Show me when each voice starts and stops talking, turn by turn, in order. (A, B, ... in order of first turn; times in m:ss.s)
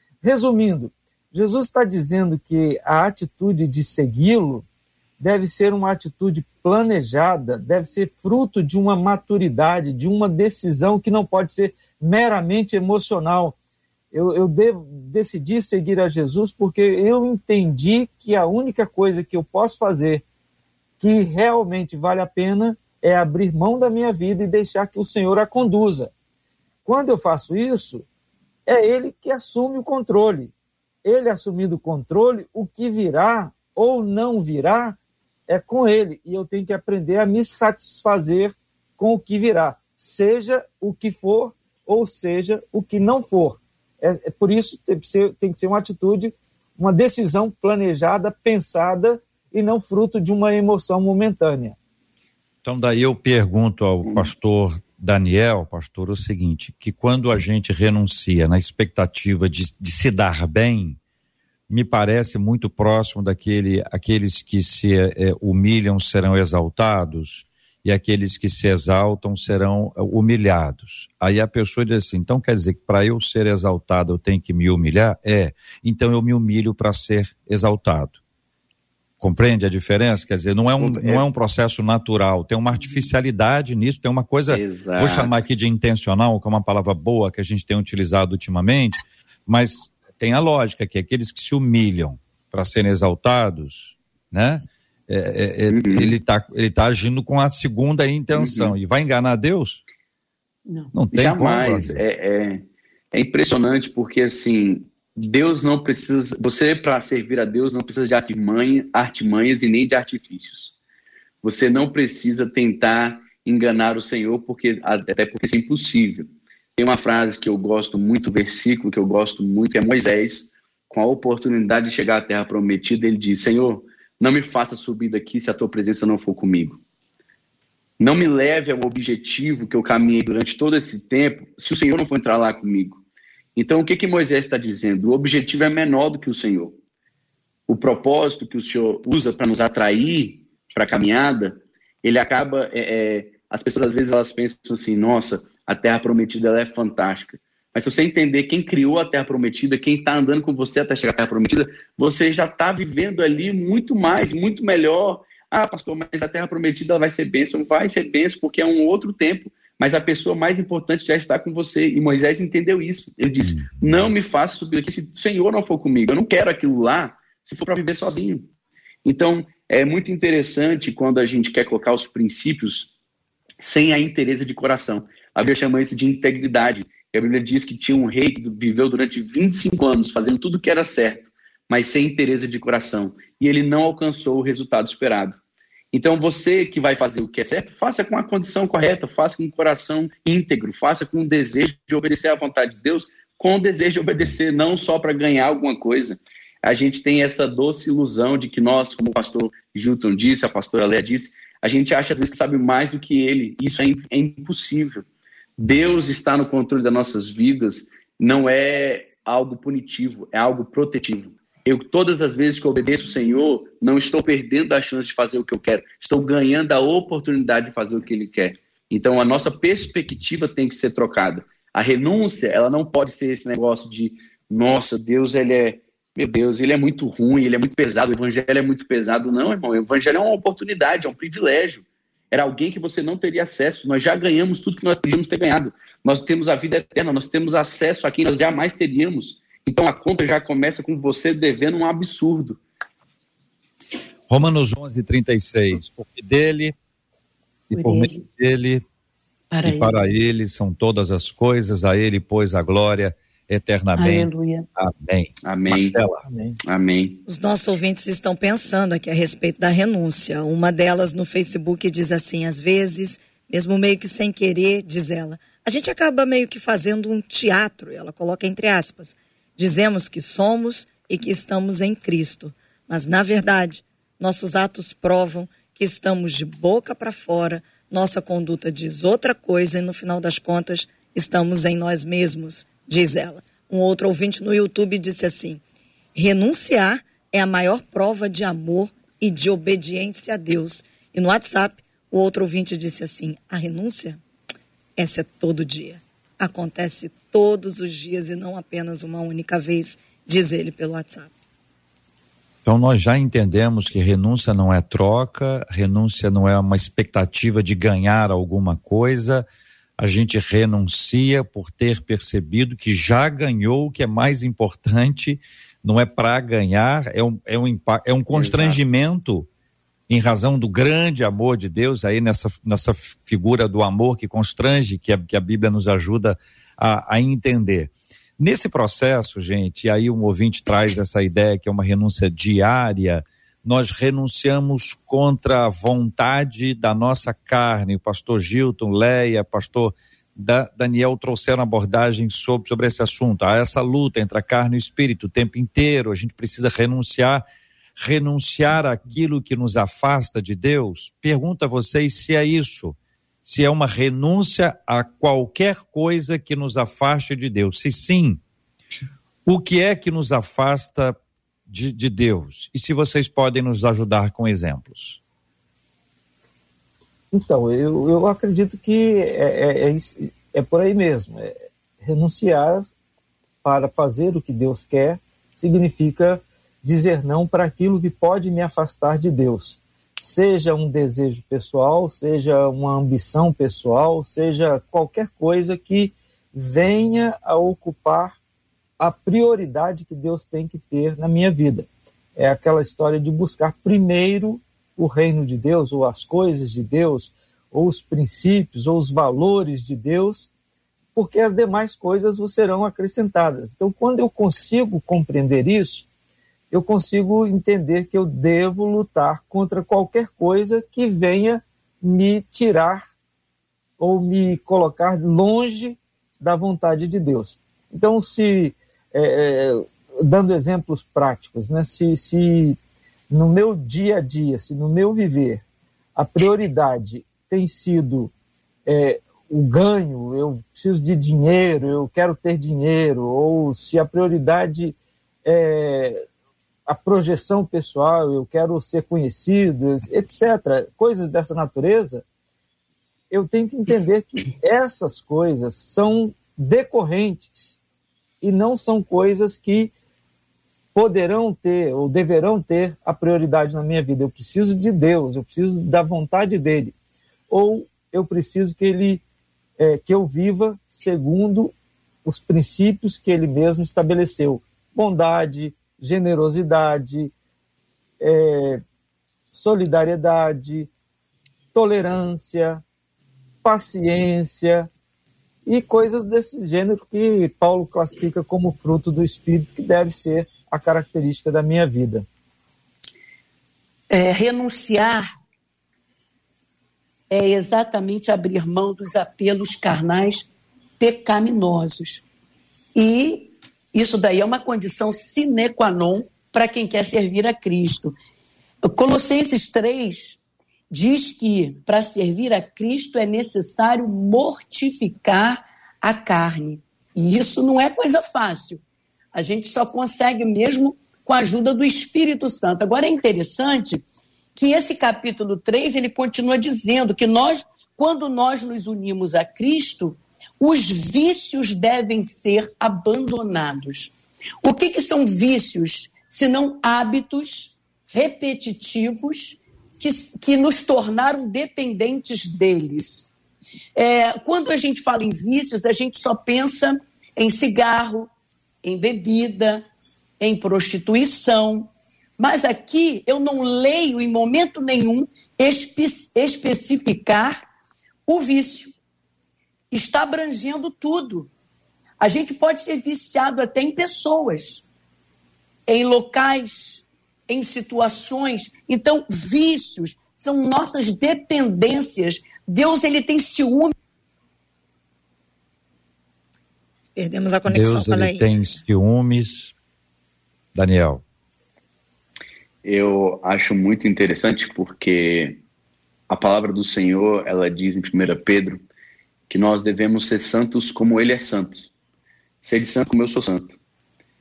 0:00.2-0:04.6 A
0:05.2-0:13.6 A
0:14.1-0:20.2 A
0:21.0-0:26.1 A
0:26.8-0:28.0 A
0:28.6-0:30.5 A
0:31.0-0:35.0 A
0:35.5-0:51.8 A
0:52.6-1:01.0 B
1:01.7-1:18.2 B
1:19.2-1:39.8 B
1:20.8-1:21.2 C
1:24.5-1:25.3 C
1:35.7-1:36.1 C
1:38.3-1:38.8 C
1:40.7-1:40.9 D
1:40.9-1:42.0 B
1:41.1-1:50.7 C
1:51.4-2:06.8 C
2:08.0-2:13.0 C
2:13.6-2:16.8 C
2:17.7-2:48.5 C
2:43.4-2:43.8 B
2:49.0-2:52.9 C
2:53.6-3:05.4 C
3:05.9-3:25.0 C
3:25.6-4:02.6 C
4:04.3-4:06.7 B
4:07.7-4:08.8 B
4:07.7-4:08.2 D
4:09.5-4:10.0 D
4:09.6-4:16.2 B
4:13.9-4:14.6 D
4:15.4-4:16.0 C
4:16.6-4:17.2 C
4:17.3-4:45.6 E
4:46.2-4:54.2 E
4:55.0-5:01.3 E
5:02.6-5:09.4 B
5:10.0-5:19.5 B
5:18.3-5:18.8 C
5:20.1-5:47.4 B
5:48.0-5:58.4 B
5:59.4-6:01.2 B
6:01.7-6:05.2 B
6:07.3-6:12.9 A
6:13.6-6:28.4 A
6:29.0-6:40.5 A
6:41.1-6:46.0 A
6:46.7-6:53.1 A
6:54.0-7:02.8 A
7:03.3-7:05.6 A
7:06.2-7:08.3 A
7:08.8-7:16.2 A
7:16.8-7:22.2 A
7:23.3-7:27.8 A
7:28.4-7:29.9 A
7:30.9-7:36.9 A
7:37.5-7:39.2 A
7:39.8-7:41.7 A
7:42.2-7:47.3 A
7:48.2-7:48.8 A
7:49.5-7:50.9 A
7:51.7-7:52.8 A
7:53.6-7:54.9 A
7:55.6-8:02.2 A
8:04.1-8:05.3 D
8:07.3-8:12.2 D
8:12.9-8:18.1 D
8:18.8-8:20.4 D
8:20.9-8:28.8 D
8:29.3-8:53.3 D
8:54.0-8:58.3 D
8:58.8-8:59.8 D
9:00.4-9:07.6 D
9:08.3-9:08.9 D
9:09.9-9:11.5 D
9:12.2-9:14.8 D
9:15.9-9:23.9 D
9:27.2-9:28.8 E
9:27.7-9:29.7 B
9:30.7-9:31.2 B
9:32.8-9:35.6 C
9:36.3-9:38.8 C
9:39.5-9:41.9 C
9:42.6-9:43.8 C